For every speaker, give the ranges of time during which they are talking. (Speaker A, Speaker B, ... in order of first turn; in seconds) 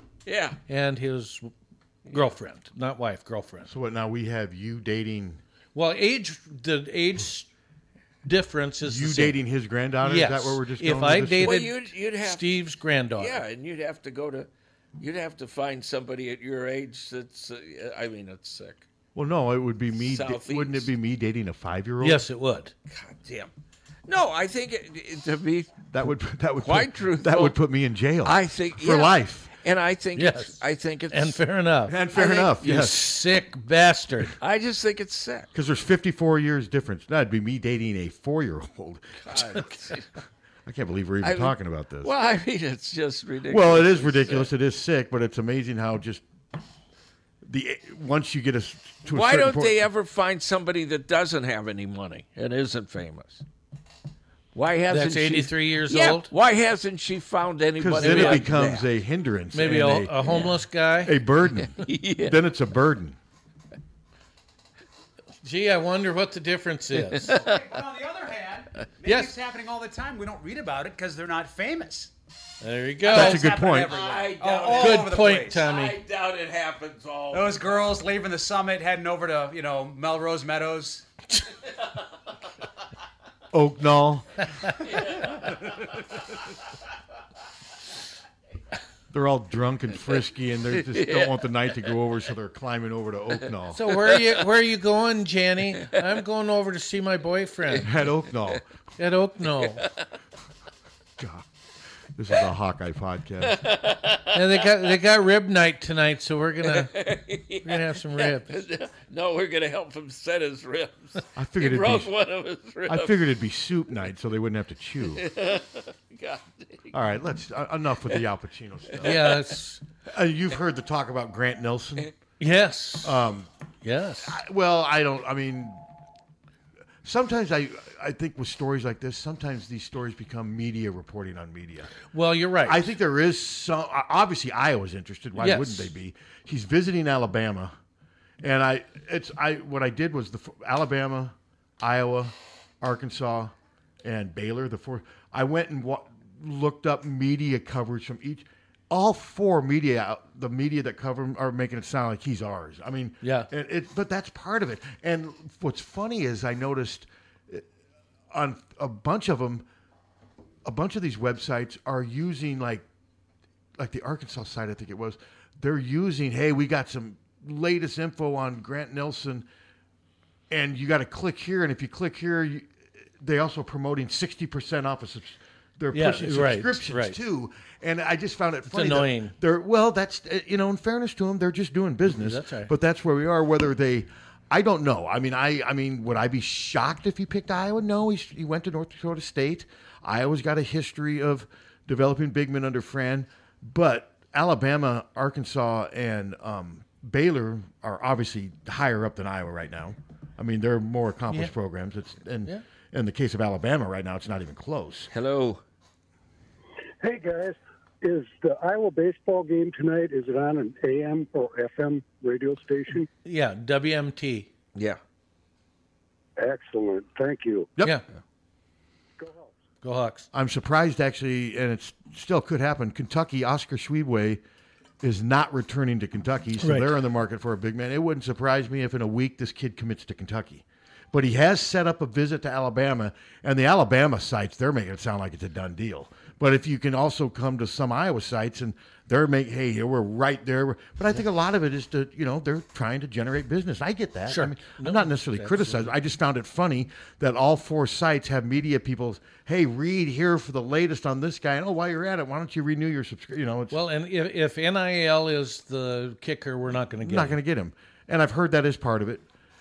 Speaker A: 0.2-0.6, 11.4-12.5, 13.2-18.9, 20.0-20.9, 22.9-23.5, 24.1-25.9, 26.6-27.6, 28.2-31.4, 32.1-32.8, 34.4-35.5, 39.3-40.0, 41.2-44.5, 49.0-53.4, 54.5-58.9, 60.3-60.5, 61.7-62.4, 67.2-67.6, 73.8-78.0, 90.9-91.3, 103.4-104.6, 106.6-113.2, 115.1-116.9, 205.1-205.6
Speaker B: 0.7-1.5, 2.1-3.7, 5.7-7.5, 8.2-9.4, 10.0-13.4, 22.0-22.7, 30.1-30.6, 31.1-34.3, 54.9-56.3, 58.0-58.5, 59.5-61.1, 65.4-67.4, 69.0-69.3, 72.6-73.5, 74.7-76.0, 93.7-97.9, 99.0-99.8, 104.3-106.9, 107.6-108.6, 119.0-119.8, 122.4-123.2, 123.8-124.4, 132.1-132.9, 135.4-135.9, 153.2-153.5, 175.9-177.2, 178.7-179.3, 182.1-182.7, 213.2-214.5, 219.8-220.3, 226.6-226.9, 244.3-245.9, 253.7-257.4
Speaker C: 3.7-5.4, 8.8-11.7, 19.1-22.2, 25.9-29.5, 31.9-33.1, 35.5-39.6, 40.6-42.1, 43.4-46.2, 47.4-49.8, 57.8-60.3, 61.0-63.2, 73.1-73.9, 83.5-84.5, 89.1-93.8, 97.8-98.6, 101.2-101.5, 102.2-103.6, 111.3-112.1, 112.8-115.2, 116.9-119.4, 120.1-122.1, 123.0-123.5, 124.2-125.8, 127.0-131.9, 132.6-137.8, 138.4-157.7, 158.3-159.7, 160.6-162.8, 163.8-169.5, 170.5-205.1, 220.3-224.4, 225.0-253.8, 257.0-259.2
Speaker D: 67.3-72.1, 73.1-75.6, 77.3-81.0
Speaker E: 207.0-213.1, 216.4-217.7, 219.2-219.5